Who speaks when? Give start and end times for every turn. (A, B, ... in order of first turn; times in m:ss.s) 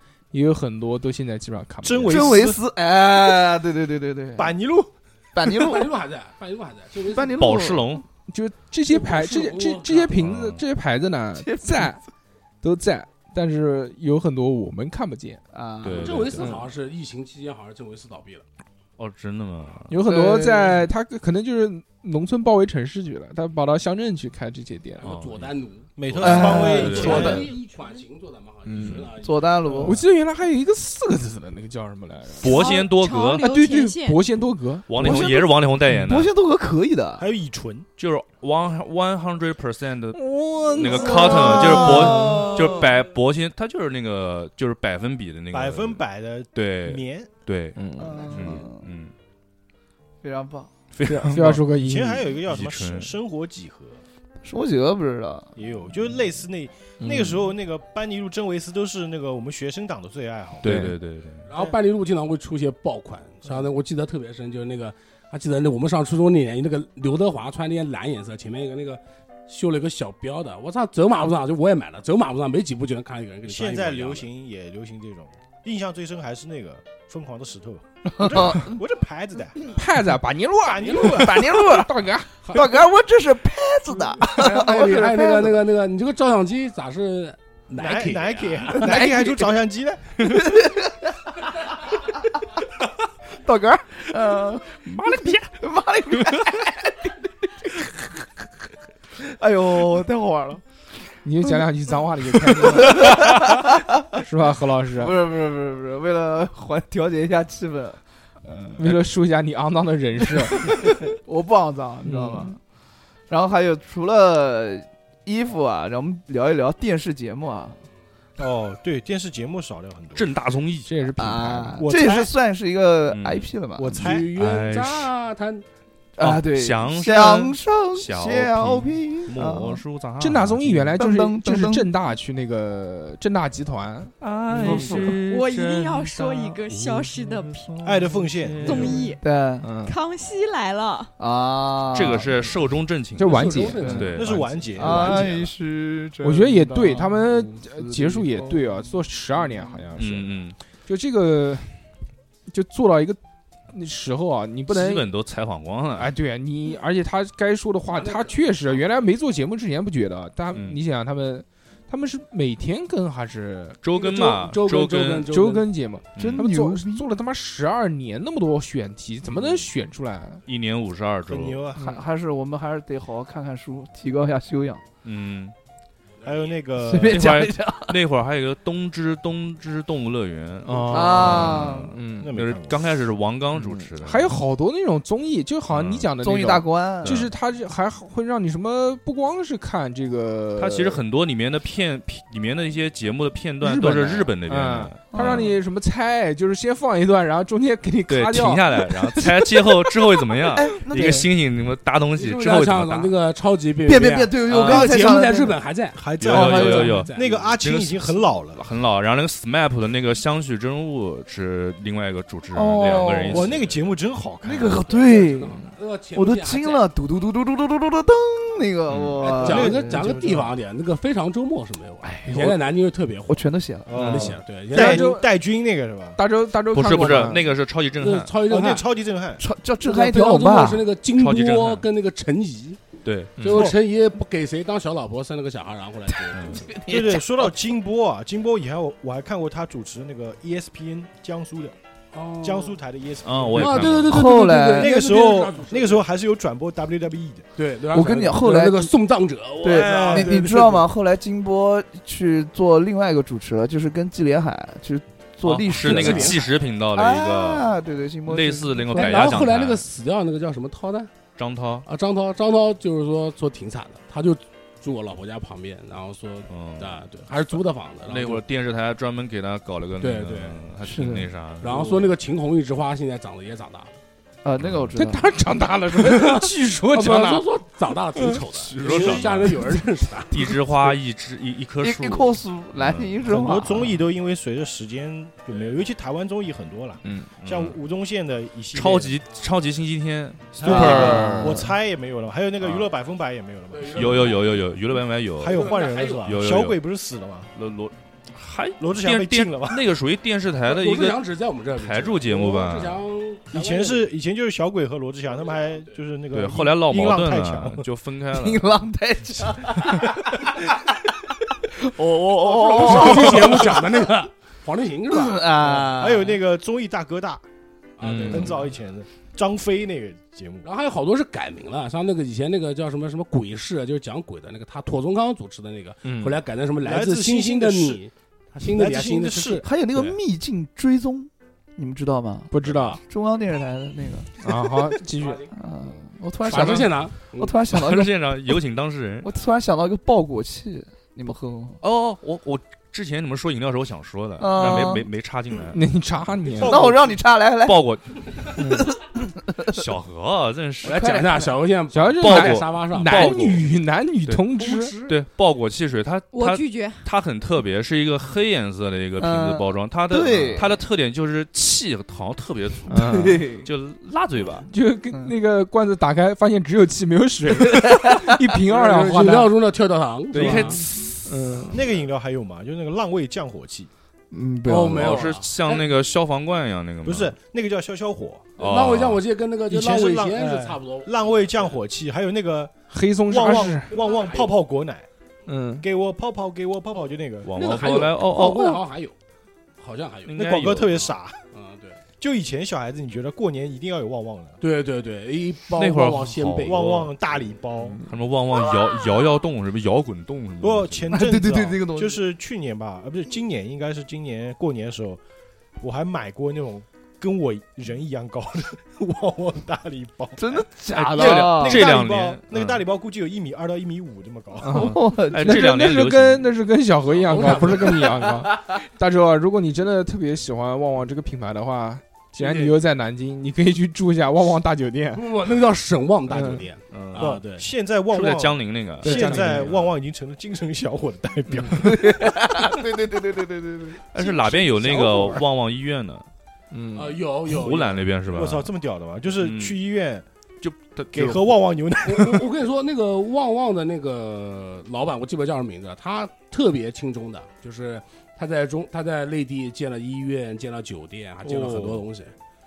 0:00.3-0:02.3 A
0:01.8-0:02.6 B
0:02.1-0:04.5 C
0:04.4-0:04.9 B
0:05.4-0:05.9 C
0:05.5-0:07.4 D
0:07.0-0:08.0 C
0:07.4-0:08.0 E
0:08.3-0:12.0 A
0:08.9-0:10.2 D
0:10.2-0:10.6 E
0:11.4-0:12.0 C
0:12.6-0:15.4 A
0:15.5-0:16.3 C
0:15.8-0:16.5 E
0:15.8-0:18.4 D
0:16.4-0:16.6 A
0:19.0-0:19.9 E
0:19.9-0:25.1 A
0:20.0-0:20.9 C
0:25.0-0:30.0 D
0:25.0-0:25.5 E
0:26.0-0:27.5 B
0:26.0-0:27.4 E
0:26.2-0:27.5 C
0:28.7-0:29.1 A
0:29.2-0:30.0 C
0:29.8-0:32.7 A
0:32.4-0:33.5 E
0:32.4-0:34.3 F
0:33.4-0:35.3 A
0:34.9-0:36.3 E
0:35.0-0:37.3 C
0:37.2-0:37.9 B
0:38.0-0:46.0 E
0:40.2-0:42.4 A
0:40.3-0:42.9 C
0:45.5-0:47.3 B
0:46.5-0:49.1 E
0:47.8-0:48.3 A
0:48.0-0:48.9 C
0:50.2-0:50.7 C
0:51.0-0:51.6 E
0:51.1-0:52.3 A
0:51.8-0:54.0 B
0:52.5-0:53.1 E
0:54.4-0:55.5 C
0:55.6-1:00.7 B
0:57.0-0:57.4 A
1:00.6-1:01.5 E
1:00.6-1:00.9 A
1:01.5-1:14.2 D
1:13.4-1:19.8 B
1:18.2-1:18.8 C
1:19.7-1:22.6 A
1:20.6-1:21.5 B
1:20.9-1:21.2 D
1:21.2-1:21.9 C
1:22.5-1:25.6 C
1:24.2-1:29.0 D
1:27.8-1:30.6 B
1:28.7-1:29.5 C
1:30.2-1:31.2 C
1:33.4-1:38.1 C
1:39.2-1:40.6 C
1:41.2-1:43.4 A
1:42.3-1:44.2 C
1:44.1-1:45.1 A
1:45.0-1:49.0 C
1:48.8-1:50.8 A
1:50.3-1:52.6 C
1:52.0-1:52.5 A
1:53.3-1:57.8 C
1:58.4-2:00.3 B
2:00.2-2:00.9 E
2:00.9-2:01.8 A
2:01.2-2:04.0 C
2:01.8-2:02.3 B
2:03.1-2:03.5 E
2:03.8-2:04.3 B
2:04.0-2:05.6 D
2:04.1-2:05.1 E
2:06.2-2:09.8 C
2:06.2-2:10.9 E
2:10.2-2:15.2 A
2:11.0-2:11.9 C
2:14.2-2:19.2 E
2:14.6-2:15.2 C
2:14.7-2:17.7 F
2:17.8-2:19.0 B
2:18.6-2:19.2 F
2:19.2-2:19.7 C
2:19.6-2:20.0 A
2:19.8-2:21.1 F
2:21.2-2:22.5 C
2:21.9-2:25.3 E
2:23.2-2:24.1 A
2:23.2-2:25.3 D
2:24.1-2:25.5 B
2:24.8-2:28.6 C
2:26.2-2:30.3 A
2:29.5-2:29.8 C
2:30.0-2:30.6 E
2:30.9-2:31.8 A
2:32.5-2:33.2 A
2:33.7-2:35.1 A
2:34.7-2:36.1 E
2:36.0-2:43.8 A
2:37.9-2:38.9 D
2:40.5-2:40.8 E
2:43.8-2:45.3 E
2:43.9-2:45.7 D
2:45.3-2:50.4 A
2:46.2-2:46.5 E
2:46.2-2:47.1 C
2:50.5-2:51.6 E
2:51.3-2:52.0 B
2:51.8-2:52.0 A
2:51.8-2:54.8 C
2:55.0-2:55.6 E
2:56.2-2:56.5 D
2:56.2-2:57.3 B
2:56.8-2:58.0 C
2:57.1-3:04.4 E
3:00.6-3:02.3 A
3:00.9-3:02.0 C
3:02.2-3:03.0 B
3:03.6-3:11.0 A
3:05.7-3:06.1 E
3:06.2-3:07.3 C
3:07.0-3:07.3 E
3:10.6-3:15.5 E
3:13.6-3:19.5 A
3:15.1-3:15.6 C
3:18.1-3:23.1 E
3:20.5-3:21.3 C
3:22.2-3:27.6 D
3:23.9-3:25.6 C
3:24.5-3:25.0 E
3:26.0-3:28.6 B
3:26.2-3:33.9 E
3:26.3-3:27.1 C
3:32.5-3:33.5 C
3:33.2-3:34.9 B
3:34.4-3:40.1 C
3:34.6-3:36.8 D
3:38.9-3:39.3 E
3:39.2-3:40.5 B
3:39.3-3:43.5 D
3:43.3-3:44.0 C
3:43.9-3:46.2 B
3:44.0-3:44.4 E
3:44.0-3:45.1 D
3:44.7-3:45.3 A
3:46.2-3:47.5 A
3:46.7-3:48.3 E
3:48.0-3:48.9 D
3:48.5-3:49.4 B
3:49.4-3:50.9 C
3:49.8-3:52.8 D
3:51.1-3:51.8 E
3:53.0-3:53.7 E
3:53.4-3:53.6 A
3:53.4-3:56.8 D
3:56.2-3:57.5 C
3:56.3-3:56.6 E
3:56.9-4:01.8 B
4:02.1-4:02.8 D
4:02.4-4:04.0 B
4:03.2-4:04.2 E
4:03.5-4:06.0 D
4:04.1-4:04.9 C
4:04.8-4:07.5 B
4:07.6-4:10.9 D
4:07.9-4:08.9 C
4:09.6-4:19.5 C
4:09.6-4:10.5 B
4:15.4-4:19.9 E
4:15.7-4:16.5 D
4:18.9-4:21.1 D
4:21.4-4:21.9 E
4:21.8-4:28.4 D
4:26.5-4:27.0 E
4:28.1-4:32.1 E
4:30.0-4:30.6 D
4:30.8-4:31.3 C
4:31.6-4:33.9 D
4:34.4-4:35.3 C
4:34.6-4:34.9 E
4:35.0-4:37.5 A
4:36.0-4:40.9 D
4:38.4-4:39.8 E
4:40.3-4:43.3 E
4:41.8-4:44.0 C
4:43.3-4:49.2 B
4:47.3-4:47.8 E
4:48.7-4:51.6 E
4:50.6-4:54.6 B
4:50.6-4:51.7 C
4:51.0-4:51.5 A
4:52.6-4:52.9 E
4:53.7-4:54.5 D
4:54.0-4:55.7 E
4:55.4-4:57.5 B
4:55.4-4:56.3 D
4:56.2-4:56.8 E
4:57.6-5:01.2 E
4:58.8-4:59.8 B
5:00.6-5:04.1 D
5:01.8-5:03.0 E
5:03.5-5:07.9 B
5:05.4-5:05.9 D
5:06.3-5:08.7 E
5:08.3-5:10.8 C
5:11.6-5:14.0 C
5:12.3-5:15.9 D
5:13.0-5:13.8 B
5:15.1-5:16.4 C
5:15.7-5:17.4 B
5:18.0-5:18.6 D
5:18.0-5:18.4 A
5:18.1-5:18.5 E
5:18.3-5:20.7 B
5:20.6-5:30.2 D
5:26.0-5:26.4 A
5:26.8-5:28.0 B
5:28.6-5:29.6 B
5:29.6-5:34.7 C
5:32.5-5:33.0 A
5:34.4-5:35.4 A
5:35.2-5:35.5 D
5:35.5-5:38.5 C
5:36.4-5:37.6 D
5:37.7-5:39.3 E
5:39.2-5:41.8 C
5:41.8-5:45.9 E
5:44.4-5:45.1 C
5:45.7-5:46.7 A
5:46.5-5:47.0 E
5:46.6-5:47.9 C
5:46.7-5:47.0 B
5:47.6-5:48.2 E
5:48.4-5:49.8 C
5:48.6-5:48.9 A
5:49.7-5:51.2 E
5:50.8-5:53.6 D
5:50.8-5:51.5 C
5:51.9-5:55.0 A
5:52.2-5:53.7 E
5:54.6-5:55.2 D
5:55.0-6:04.7 E
5:56.3-5:57.1 F
5:59.2-6:00.8 C
6:02.9-6:03.4 A
6:02.9-6:03.7 C
6:04.7-6:09.5 A
6:08.6-6:10.8 D
6:10.3-6:11.3 E
6:10.4-6:11.8 A
6:11.7-6:13.9 B
6:14.3-6:15.3 C
6:14.6-6:15.9 D
6:14.9-6:17.3 E
6:17.0-6:18.5 B
6:18.6-6:21.8 D
6:18.6-6:19.2 E
6:19.7-6:22.7 B
6:22.9-6:23.9 A
6:23.3-6:25.1 B
6:23.9-6:24.5 D
6:25.5-6:25.8 A
6:25.8-6:27.5 B
6:27.5-6:28.7 E
6:27.5-6:29.2 D
6:28.4-6:28.8 C
6:29.8-6:32.0 D
6:30.3-6:30.9 E
6:30.4-6:31.4 B
6:32.2-6:34.6 B
6:34.6-6:37.1 D
6:35.8-6:36.8 E
6:36.6-6:38.0 B
6:38.0-6:41.2 E
6:40.6-6:45.2 B
6:41.1-6:42.2 C
6:45.8-6:55.0 B
6:50.4-6:51.9 C
6:50.9-6:52.8 E
6:51.1-6:51.4 D
6:54.6-7:05.3 A
6:54.7-6:55.6 C
6:55.1-6:56.5 E
6:57.2-6:58.2 D
6:57.9-6:58.6 C
7:02.4-7:02.7 D
7:05.1-7:07.7 D
7:06.3-7:06.6 A
7:06.9-7:07.4 E
7:07.2-7:12.2 B
7:08.1-7:09.9 E
7:09.0-7:09.7 D
7:09.1-7:09.6 A
7:11.7-7:15.4 C
7:14.1-7:16.3 E
7:16.7-7:17.2 A
7:16.9-7:18.1 D
7:17.5-7:18.7 E
7:18.3-7:20.3 B
7:19.4-7:19.8 E
7:20.6-7:21.5 E
7:21.1-7:22.5 B
7:22.1-7:32.3 D
7:31.4-7:32.0 E